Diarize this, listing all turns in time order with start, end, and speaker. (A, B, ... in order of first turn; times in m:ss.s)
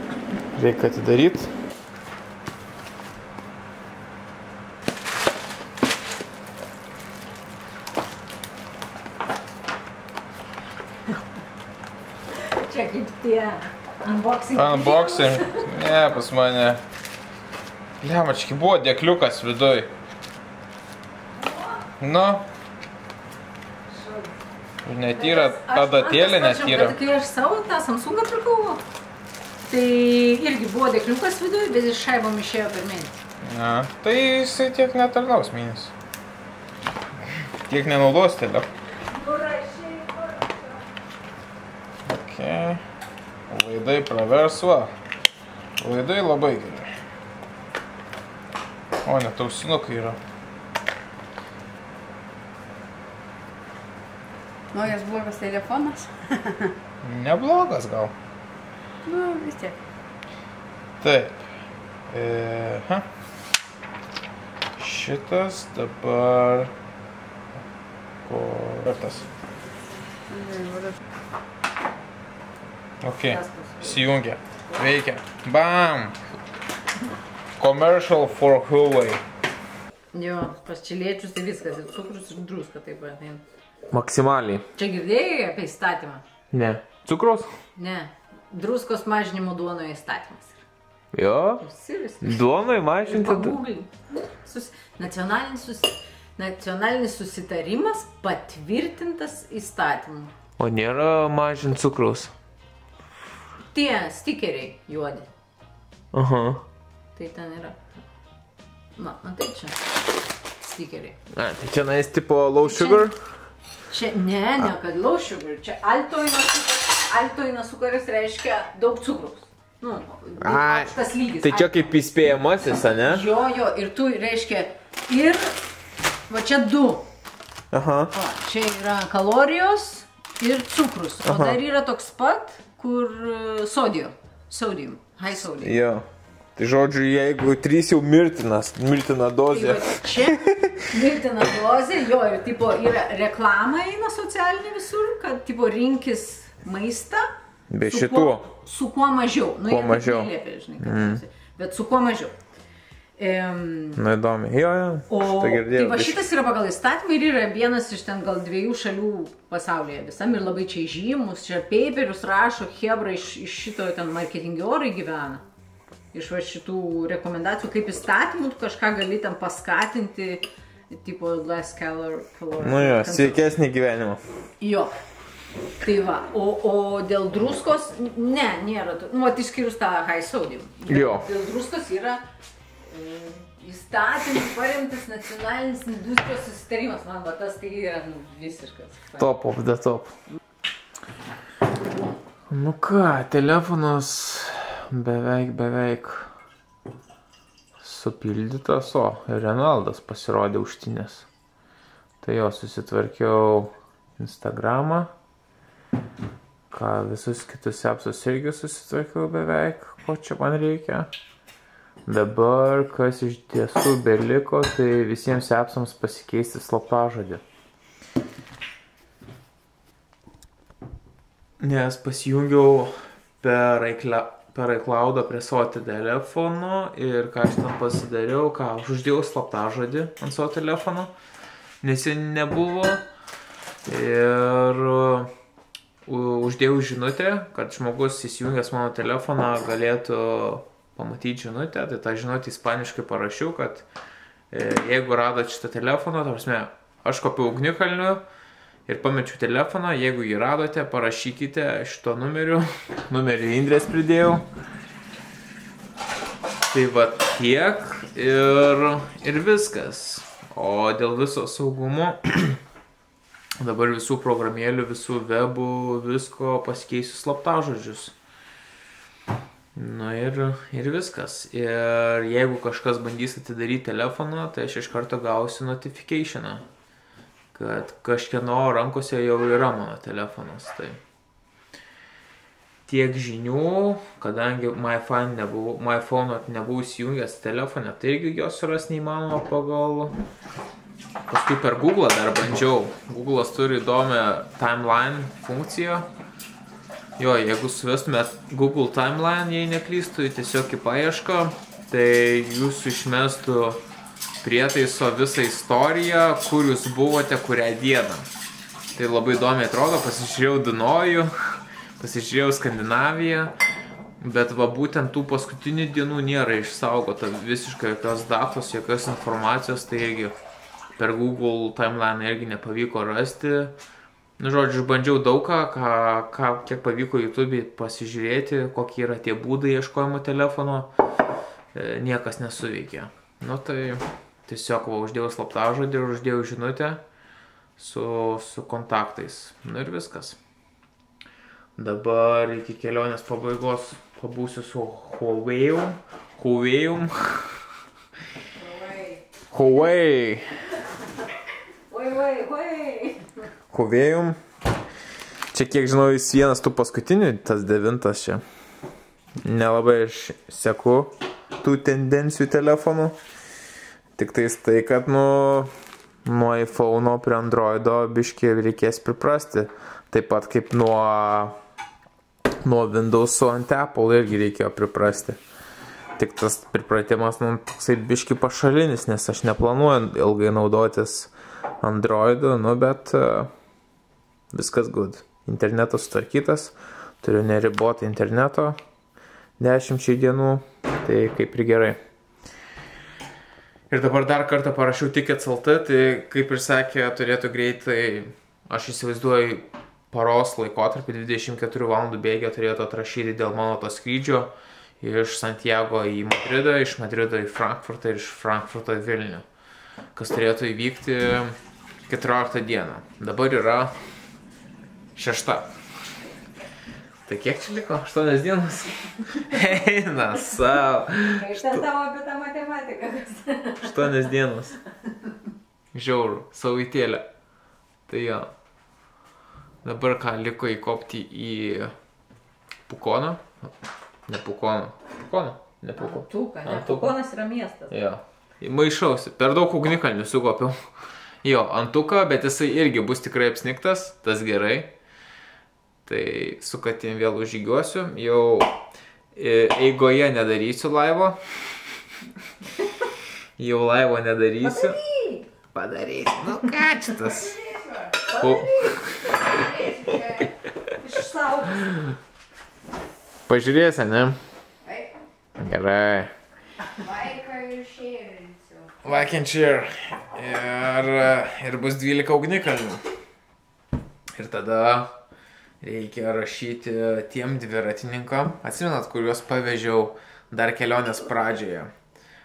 0:00.6-0:01.5 A
0:12.4-0:15.6 B
0:14.5-0:16.8 A
0:18.0-0:19.9 A
0:22.0-0:22.5 A
0:24.9-0:27.0 A
0:25.1-0:28.8 B
0:29.7-0:33.2 B
0:33.4-0:35.9 A
0:37.7-0:38.7 A
0:39.1-0:40.5 B
0:42.1-0:42.8 A
0:43.5-0:44.9 A
0:45.8-0:46.9 A
0:49.0-0:50.2 A
0:54.7-0:56.7 C
0:57.0-0:58.1 A
0:59.1-0:59.8 C
1:01.0-1:01.4 A
1:02.1-1:03.0 A
1:04.8-1:06.7 A
1:08.3-1:09.3 A
1:10.3-1:10.9 C
1:13.0-1:16.2 A
1:13.3-1:14.0 B
1:17.6-1:19.2 A
1:20.1-1:23.4 B
1:23.9-1:24.6 A
1:24.8-1:26.2 B
1:26.5-1:27.5 A
1:27.8-1:30.6 B
1:31.1-1:31.6 A
1:31.6-1:40.3 B
1:32.2-1:33.6 A
1:40.6-1:42.3 A
1:43.7-1:45.3 B
1:46.1-1:46.6 A
1:47.2-1:47.8 B
1:49.0-1:49.8 B
1:50.6-1:51.2 B
1:51.3-1:53.2 A
1:52.6-1:53.1 B
1:53.9-2:01.9 B
2:00.4-2:03.2 A
2:03.0-2:05.6 B
2:06.3-2:07.0 B
2:07.7-2:08.1 A
2:08.1-2:15.8 B
2:11.2-2:11.6 A
2:15.4-2:16.0 A
2:16.6-2:20.7 A
2:19.5-2:27.2 B
2:27.7-2:28.5 A
2:27.8-2:32.3 B
2:29.7-2:31.2 A
2:33.2-2:34.0 B
2:34.0-2:36.3 A
2:35.1-2:45.4 B
2:46.1-2:53.5 B
2:52.6-2:54.2 A
2:54.6-2:54.9 B
2:55.8-3:02.2 B
3:00.9-3:01.3 A
3:02.8-3:09.3 B
3:09.2-3:10.1 A
3:12.5-3:16.3 A
3:17.8-3:21.3 A
3:22.2-3:25.1 A
3:26.7-3:31.1 A
3:32.1-3:37.4 A
3:41.6-3:51.1 A
3:51.8-3:53.0 A
3:53.9-3:55.3 A
3:56.1-4:03.9 A
4:04.5-4:08.2 A
4:08.9-4:14.5 A
4:16.7-4:22.6 A
4:23.6-4:28.2 A
4:29.8-4:36.6 A
4:37.5-4:41.0 A
4:42.9-4:50.2 A
4:51.3-4:56.1 A
4:57.2-5:03.8 A
5:04.4-5:08.3 A
5:09.0-5:11.3 A
5:12.0-5:13.6 A
5:14.2-5:20.4 A
5:21.0-5:23.8 A
5:24.4-5:30.9 A
5:31.7-5:37.0 A
5:37.8-5:40.4 A
5:41.8-5:47.5 A
5:48.6-5:49.2 B
5:49.5-5:50.4 A
5:51.9-5:53.3 B
5:53.7-5:54.4 A
5:55.5-5:58.4 A
5:59.4-6:03.2 A
6:04.2-6:05.7 A
6:06.2-6:11.6 A
6:12.6-6:15.4 A
6:16.2-6:23.5 A
6:24.5-6:28.8 A
6:29.6-6:32.0 A
6:33.9-6:49.4 A
6:50.2-6:51.6 A
6:52.1-6:54.0 A
6:55.2-6:55.7 A
6:57.3-7:01.8 A
7:01.2-7:04.1 B
7:03.8-7:04.8 A
7:05.9-7:07.2 A
7:08.1-7:08.5 A
7:09.8-7:11.9 A
7:12.9-7:13.5 A
7:14.3-7:17.1 A
7:16.0-7:17.9 B
7:17.9-7:20.8 A
7:21.4-7:25.0 A
7:26.1-7:28.7 A
7:29.4-7:31.4 A
7:33.6-7:35.0 A
7:34.6-7:35.5 B
7:35.7-7:37.6 A
7:38.3-7:39.1 B
7:38.3-7:40.4 A
7:41.0-7:41.9 B
7:43.5-7:44.4 A
7:45.6-7:46.3 A
7:47.1-7:48.8 C
7:49.0-7:53.0 A
7:54.4-7:55.2 A
7:55.8-8:01.9 A